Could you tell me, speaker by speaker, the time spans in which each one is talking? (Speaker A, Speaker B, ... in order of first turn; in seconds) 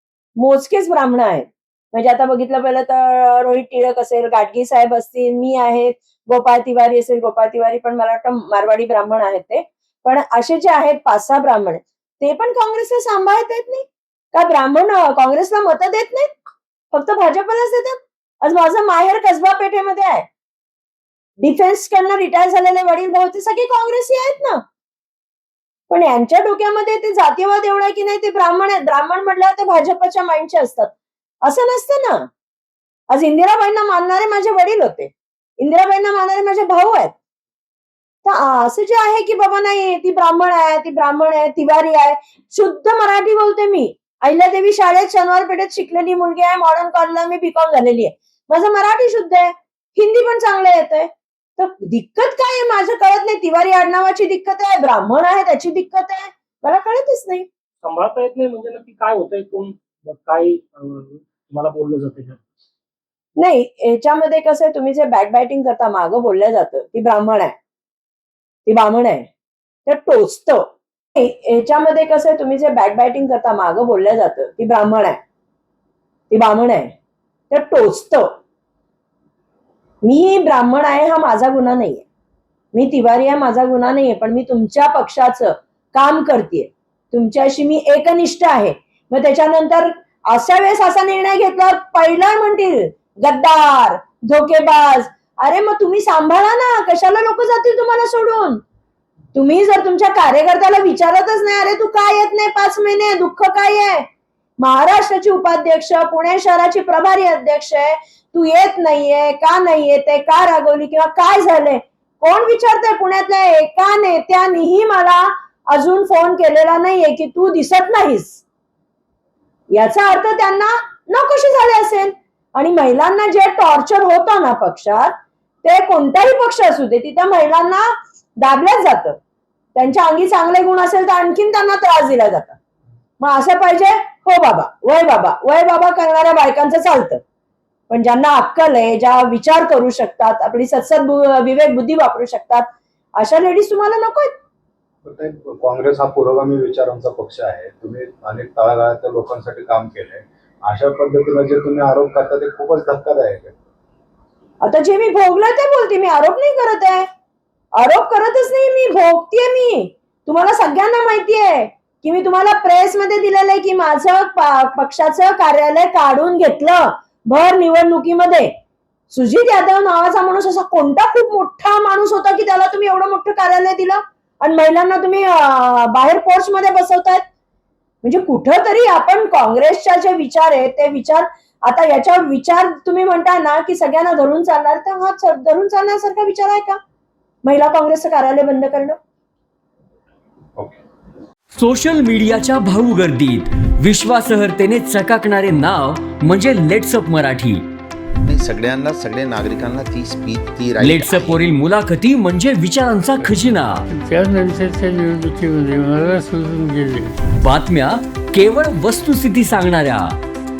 Speaker A: 0.4-16.4, 16.9-20.2, 21.4-24.6, 25.9-30.9, 31.4-32.3, 33.1-37.1, 38.2-57.5, 63.4-67.5, 68.7-69.3, 69.8-75.2, 76.3-76.9, 77.5-78.3, 80.0-82.0, 82.7-98.6, 99.3-104.0, 104.6-118.4, 119.7-129.2, 129.8-132.6, 133.2-137.2, 137.9-142.7, 143.2-144.3, 154.6-157.1, 157.8-168.5, 169.1-177.2, 178.0-186.8, 187.4-189.0
Speaker B: 57.8-62.4
Speaker C: 145.0-153.5
Speaker D: 191.5-197.6, 200.8-203.8, 207.4-210.1
Speaker E: 198.2-201.4
Speaker F: 203.9-207.1